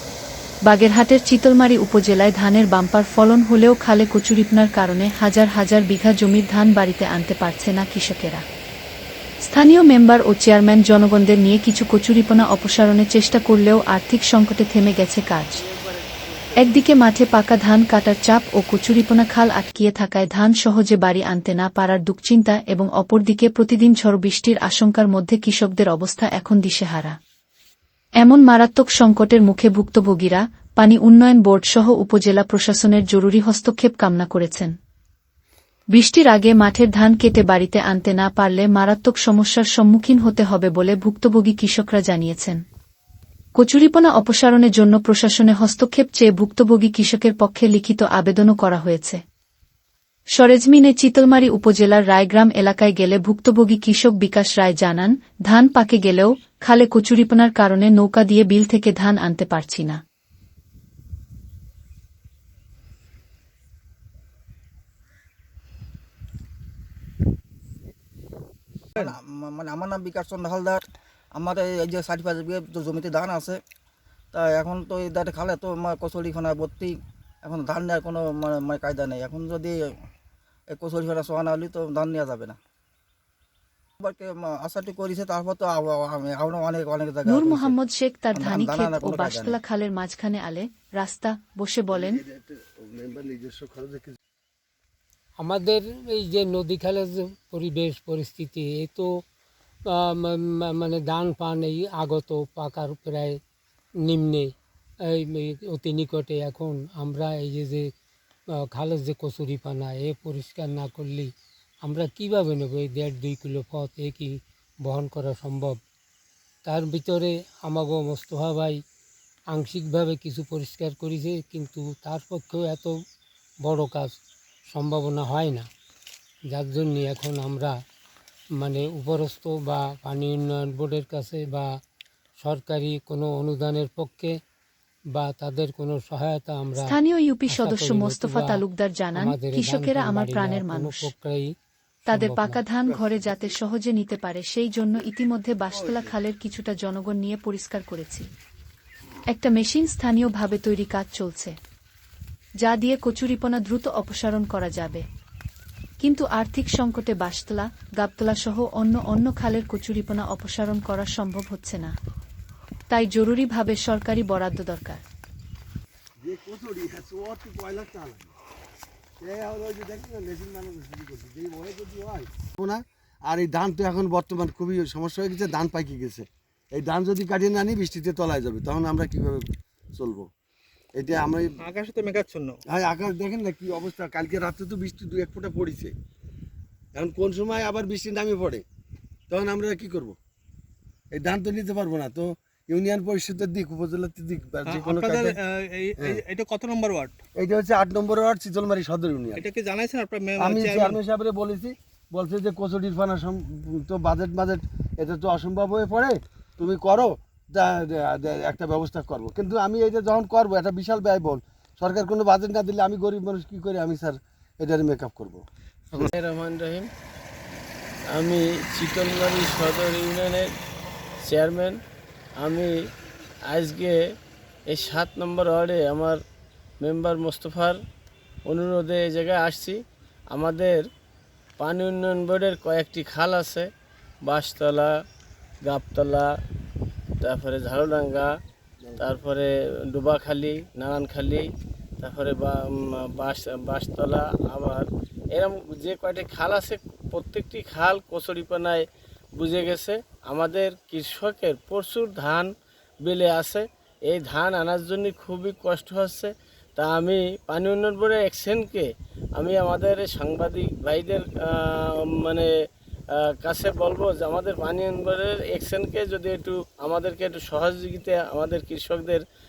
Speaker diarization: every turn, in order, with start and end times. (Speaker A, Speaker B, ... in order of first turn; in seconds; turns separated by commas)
Speaker A: 0.7-8.4, Speaker A: 9.4-15.6, Speaker B: 15.6-16.8, Speaker A: 16.6-27.2, Speaker A: 28.2-34.7, Speaker A: 35.9-42.6, Speaker A: 43.6-49.2, Speaker A: 50.4-60.0, Speaker C: 69.0-70.8, Speaker C: 71.3-73.6, Speaker C: 74.3-79.9, Speaker C: 80.7-82.6, Speaker C: 84.0-87.8, Speaker A: 87.3-92.2, Speaker C: 88.4-89.6, Speaker D: 91.9-94.2, Speaker E: 95.4-99.1, Speaker E: 99.9-103.4, Speaker E: 104.0-104.5, Speaker E: 105.1-107.9, Speaker E: 108.6-111.3, Speaker E: 111.8-115.8, Speaker E: 116.7-118.8, Speaker E: 119.5-122.9, Speaker E: 123.6-124.1, Speaker E: 124.7-125.7, Speaker E: 126.5-127.7, Speaker E: 128.6-131.7, Speaker E: 132.4-134.3, Speaker E: 135.2-137.0, Speaker A: 136.8-141.1, Speaker E: 137.5-138.6, Speaker E: 139.2-141.5, Speaker A: 142.1-148.3, Speaker E: 142.1-142.6, Speaker D: 142.9-143.4, Speaker D: 145.7-146.1, Speaker A: 149.3-151.6, Speaker A: 152.6-155.0, Speaker A: 156.0-162.0, Speaker A: 162.9-165.1, Speaker D: 166.2-168.3, Speaker D: 169.2-179.4, Speaker D: 180.0-180.3, Speaker D: 180.9-181.7, Speaker F: 181.7-182.6, Speaker D: 182.7-185.9, Speaker D: 187.0-188.6, Speaker D: 189.3-190.2, Speaker D: 191.1-195.4, Speaker F: 194.7-197.2, Speaker D: 196.0-196.2, Speaker D: 197.4-199.5, Speaker F: 199.4-201.0, Speaker D: 200.4-215.4, Speaker B: 215.9-216.9, Speaker B: 218.1-220.5, Speaker B: 221.3-221.8, Speaker B: 222.4-222.7, Speaker B: 223.5-224.0, Speaker B: 224.7-226.2, Speaker B: 226.8-227.8, Speaker B: 228.5-229.8, Speaker B: 230.3-230.8, Speaker B: 231.6-233.7, Speaker B: 234.2-234.9, Speaker B: 235.7-236.3, Speaker B: 237.2-238.3, Speaker B: 239.0-241.5, Speaker B: 242.0-248.8, Speaker B: 249.4-252.5, Speaker B: 253.0-262.5, Speaker B: 263.4-269.2